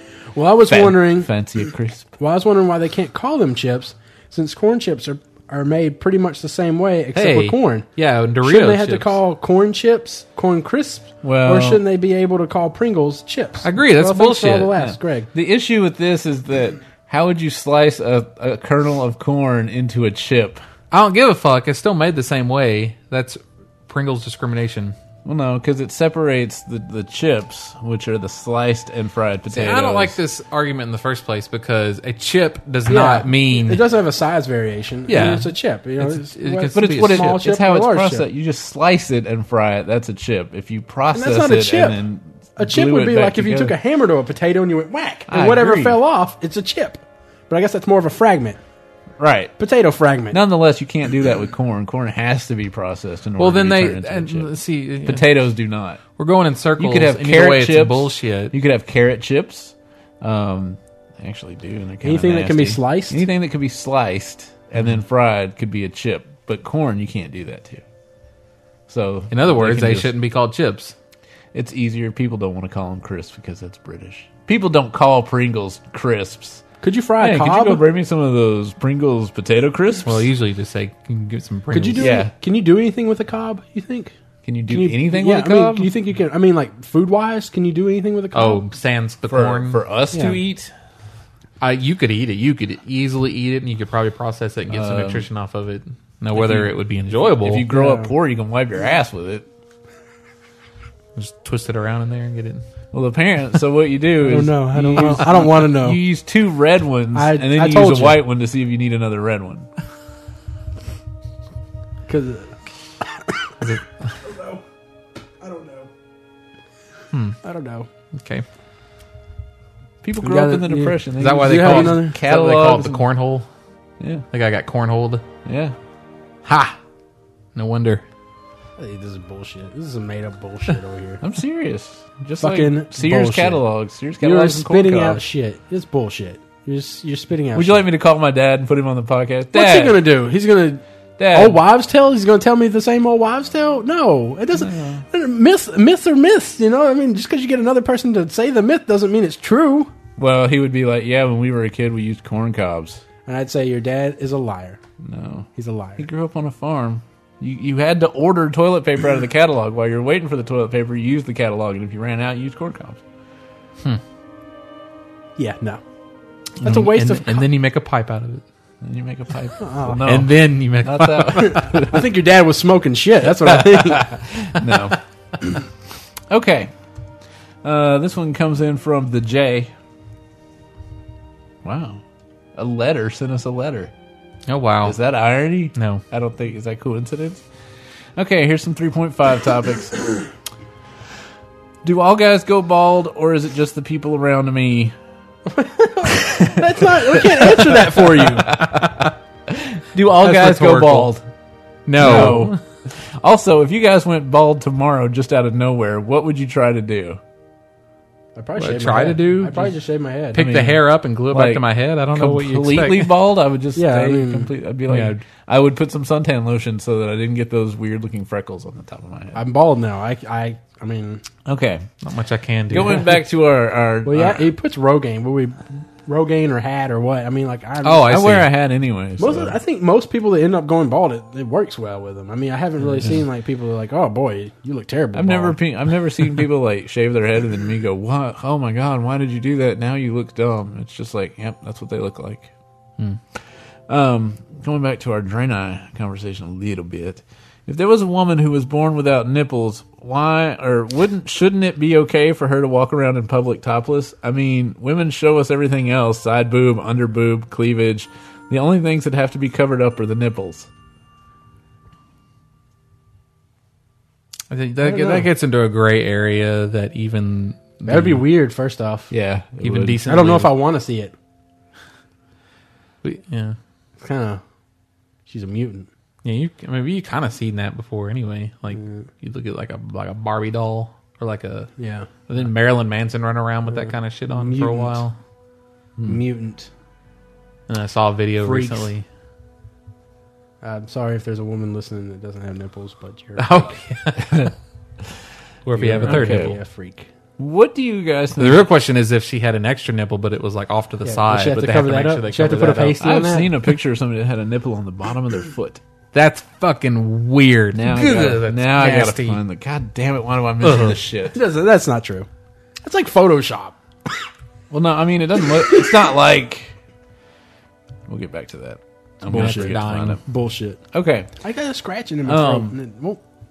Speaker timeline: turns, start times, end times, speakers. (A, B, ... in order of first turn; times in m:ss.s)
0:00.3-0:01.3 A
0:00.7-0:02.1 B
0:02.2-0:07.8 A
0:07.1-0:09.2 C
0:08.4-0:15.3 A
0:11.2-0:11.8 B
0:13.6-0:14.7 C
0:14.7-0:20.6 B
0:20.9-0:24.9 C
0:25.2-0:30.2 B
0:29.5-0:33.8 C
0:32.9-0:38.3 A
0:35.1-0:37.4 C
0:35.1-0:35.4 B
0:36.7-0:43.7 B
0:41.1-0:42.0 A
0:42.6-0:48.6 A
0:45.3-0:46.0 B
0:49.2-0:49.5 B
0:49.6-0:50.4 A
0:50.3-0:54.5 B
0:53.4-0:55.3 C
0:55.0-0:56.0 B
0:56.2-0:58.5 C
0:56.8-1:07.8 B
1:02.0-1:03.2 A
1:08.9-1:10.1 B
1:09.3-1:10.9 C
1:11.5-1:16.6 B
1:16.8-1:17.8 A
1:17.2-1:20.3 B
1:20.0-1:22.1 C
1:21.7-1:24.1 A
1:22.0-1:22.3 B
1:24.4-1:25.9 B
1:24.7-1:28.6 A
1:28.3-1:29.8 C
1:29.3-1:30.7 B
1:30.1-1:30.4 A
1:31.6-1:37.7 C
1:34.7-1:35.3 B
1:36.3-1:39.4 B
1:37.7-1:38.1 A
1:41.2-1:42.6 C
1:42.9-1:49.7 B
1:44.2-1:46.0 A
1:47.1-1:48.2 A
1:52.1-1:52.6 A
1:53.6-1:54.2 C
1:54.2-1:54.6 A
1:55.4-1:55.9 A
1:57.1-1:57.4 C
1:57.4-1:57.9 A
1:58.1-1:58.4 C
2:00.0-2:03.0 B
2:00.2-2:02.2 A
2:01.2-2:03.5 C
2:04.0-2:04.2 B
2:04.3-2:05.2 C
2:05.4-2:05.8 B
2:07.5-2:08.0 C
2:08.8-2:11.2 A
2:11.2-2:15.2 B
2:12.4-2:13.6 A
2:14.2-2:17.9 A
2:17.5-2:20.0 B
2:19.5-2:29.9 A
2:21.2-2:21.6 B
2:24.5-2:25.0 B
2:30.2-2:33.0 B
2:33.2-2:34.8 A
2:35.0-2:43.0 B
2:35.5-2:36.0 A
2:45.4-2:45.8 A
2:46.6-2:48.4 C
2:46.6-2:47.4 A
2:48.8-2:52.0 B
2:49.6-2:50.0 A
2:50.0-2:51.7 C
2:51.4-2:54.2 A
2:53.4-2:55.0 B
2:54.6-2:55.0 C
2:56.3-2:56.7 B
2:57.6-2:59.7 B
3:01.6-3:02.0 B
3:02.5-3:03.9 B
3:04.5-3:05.0 C
3:04.8-3:07.4 B
3:05.7-3:06.0 C
3:08.2-3:10.0 B
3:11.8-3:14.9 B
3:15.5-3:18.6 A
3:16.1-3:18.9 B
3:18.5-3:19.1 C
3:19.5-3:21.2 B
3:20.1-3:21.1 C
3:21.9-3:22.6 C
3:22.0-3:27.2 B
3:22.0-3:22.5 A
3:28.4-3:30.4 A
3:28.6-3:29.7 C
3:30.3-3:33.1 C
3:30.3-3:39.4 B
3:33.8-3:34.5 A
3:39.3-3:41.2 A
3:41.4-3:41.8 B
3:42.0-3:43.1 C
3:42.7-3:44.4 B
3:44.0-3:48.2 A
3:47.8-3:48.5 C
3:48.1-3:49.6 B
3:49.2-3:55.6 A
3:55.1-4:02.5 B
4:03.9-4:20.7 B
4:24.5-4:27.8 C
4:24.8-4:25.3 A
4:27.8-4:29.1 A
4:27.9-4:28.2 B
4:29.1-4:30.0 B
4:29.6-4:30.5 C
4:30.0-4:31.1 A
4:33.0-4:33.6 C
4:34.0-4:34.4 A
4:35.3-4:35.9 A
4:36.2-4:41.7 C
4:38.7-4:39.0 A
4:41.8-4:42.1 A
4:42.3-4:45.2 C
4:43.7-4:45.0 A
4:46.0-4:46.7 A
4:47.7-4:49.0 C
4:48.4-4:48.9 A
4:50.6-4:53.7 A
4:53.4-4:54.5 C
4:55.6-4:56.6 C
4:55.7-4:57.1 A
4:56.0-4:56.6 B
4:57.4-4:58.7 B
4:58.4-5:03.0 C
5:01.0-5:03.5 A
5:03.0-5:05.8 B
5:06.1-5:09.4 C
5:07.7-5:11.4 B
5:10.6-5:11.0 C
5:11.3-5:12.3 A
5:12.8-5:13.8 A
5:14.7-5:16.8 B
5:18.1-5:20.2 B
5:19.2-5:20.8 A
5:19.3-5:20.2 C
5:20.9-5:21.3 B
5:21.4-5:23.2 A
5:22.2-5:22.7 B